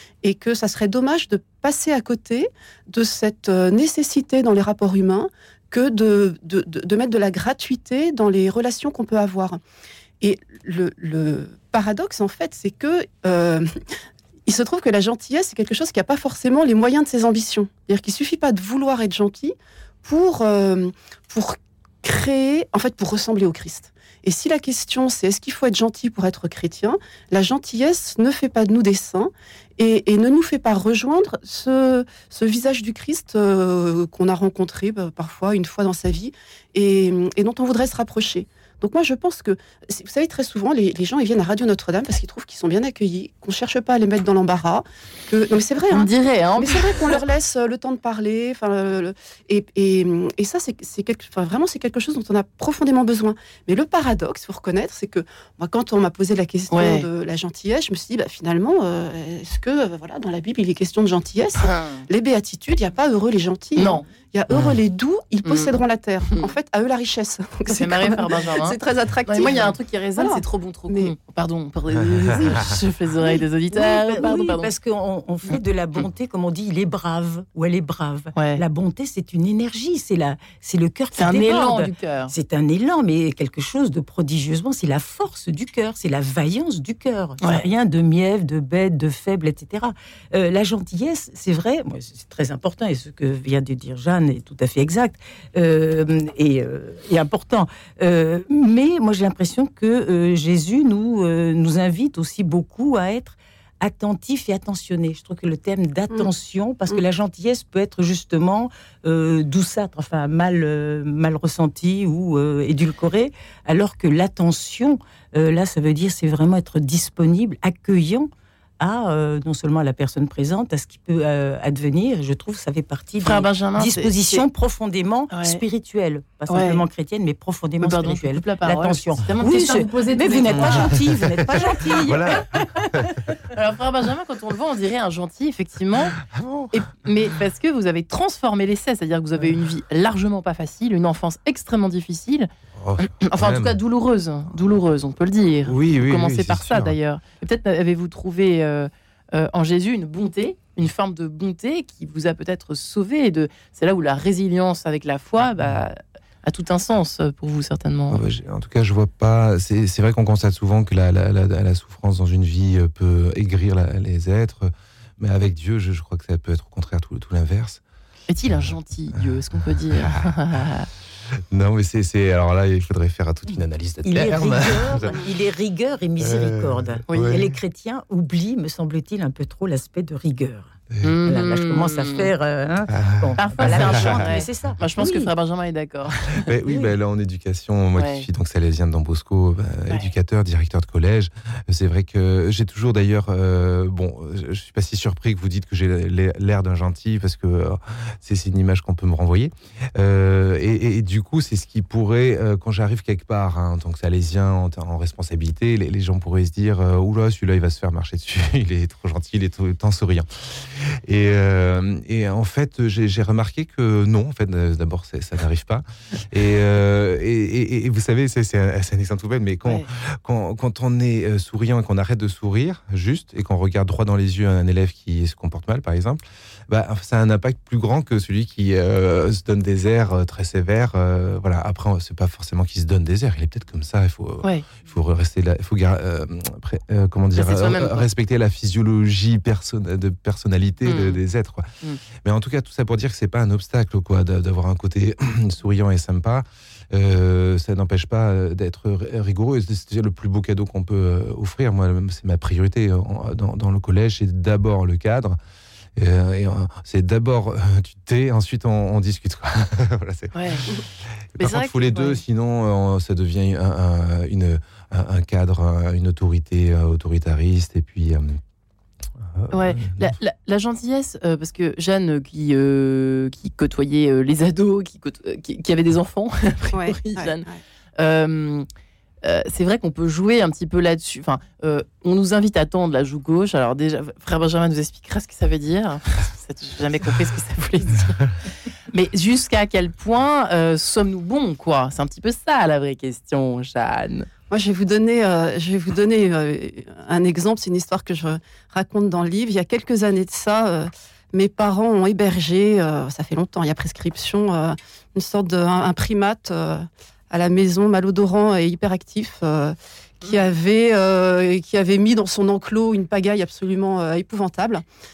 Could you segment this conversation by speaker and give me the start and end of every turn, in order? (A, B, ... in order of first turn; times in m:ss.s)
0:00.2-0:09.6 A
0:10.2-0:13.7 A
0:14.5-1:11.1 A
0:45.9-0:47.2 B
0:56.7-0:57.1 B
1:01.6-1:02.0 B
1:03.8-1:04.0 B
1:04.5-1:04.8 C
1:05.4-1:05.8 B
1:07.7-1:14.7 B
1:12.0-1:12.5 C
1:13.7-2:12.9 D
1:15.5-1:16.0 B
1:18.3-1:18.6 B
1:21.1-1:22.3 B
2:03.2-2:04.4 B
2:05.3-2:05.6 B
2:06.5-2:06.8 B
2:07.8-2:12.4 B
2:10.5-2:13.2 C
2:13.5-2:16.2 B
2:16.2-2:16.7 C
2:16.7-2:22.5 B
2:22.8-2:23.8 C
2:23.0-2:38.2 B
2:25.6-2:27.0 C
2:38.1-2:47.8 C
2:48.3-2:50.9 B
2:48.5-2:48.7 C
2:49.6-2:50.3 C
2:51.5-2:55.2 C
2:54.0-3:05.3 D
2:56.2-2:57.6 C
2:57.1-2:57.4 B
3:00.9-3:01.2 C
3:01.0-3:02.3 B
3:02.9-3:04.7 C
3:03.4-3:06.5 B
3:06.4-4:01.7 C
3:08.0-3:08.2 B
3:54.4-3:54.7 B
3:57.4-3:58.0 B
4:00.8-4:01.2 B
4:02.2-4:15.4 C
4:16.0-4:20.7 C
4:20.3-4:20.6 B
4:21.3-4:28.4 C
4:21.4-4:22.2 B
4:29.2-4:30.1 C
4:29.5-4:37.4 B
4:36.7-4:37.6 A
4:38.0-4:38.6 B
4:39.2-4:48.3 B
4:48.9-4:54.3 B
4:54.5-5:14.8 A